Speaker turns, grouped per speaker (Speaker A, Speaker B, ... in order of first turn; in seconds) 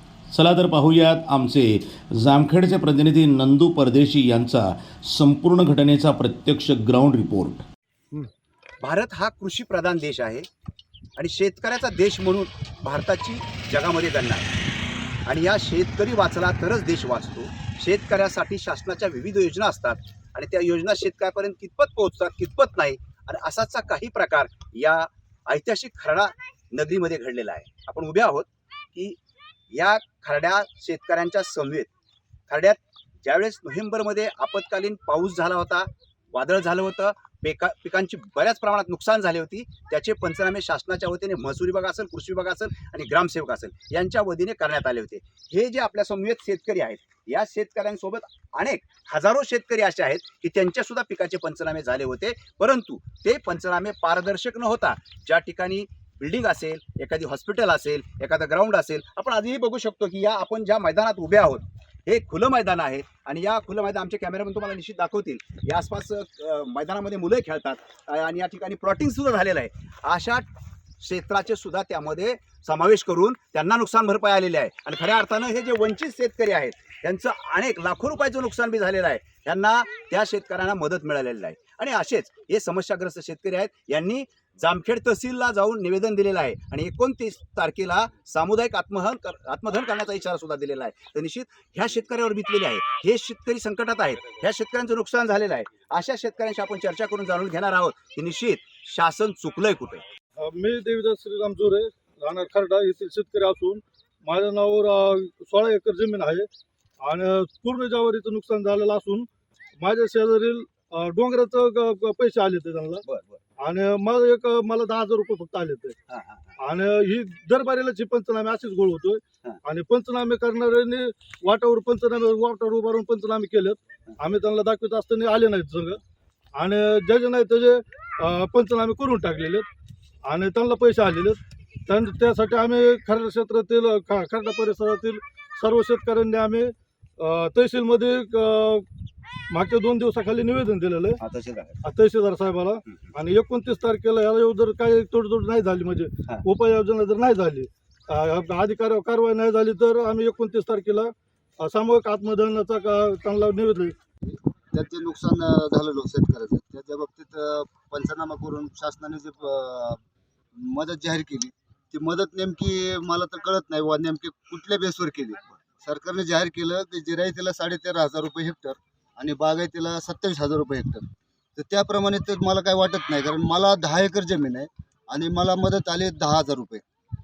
Speaker A: 0.3-7.6
Speaker B: 8.8-10.5, 11.2-14.5, 15.3-29.2, 29.7-31.9, 32.5-70.5, 71.0-100.0, 113.0-113.4, 116.1-116.5, 141.2-141.8
Speaker C: 100.4-106.5, 107.0-109.3, 109.8-113.0, 113.6-116.0, 116.6-126.0, 126.5-129.7, 130.2-138.8, 139.5-141.2, 141.8-153.9
Speaker D: 154.2-160.0, 160.6-176.8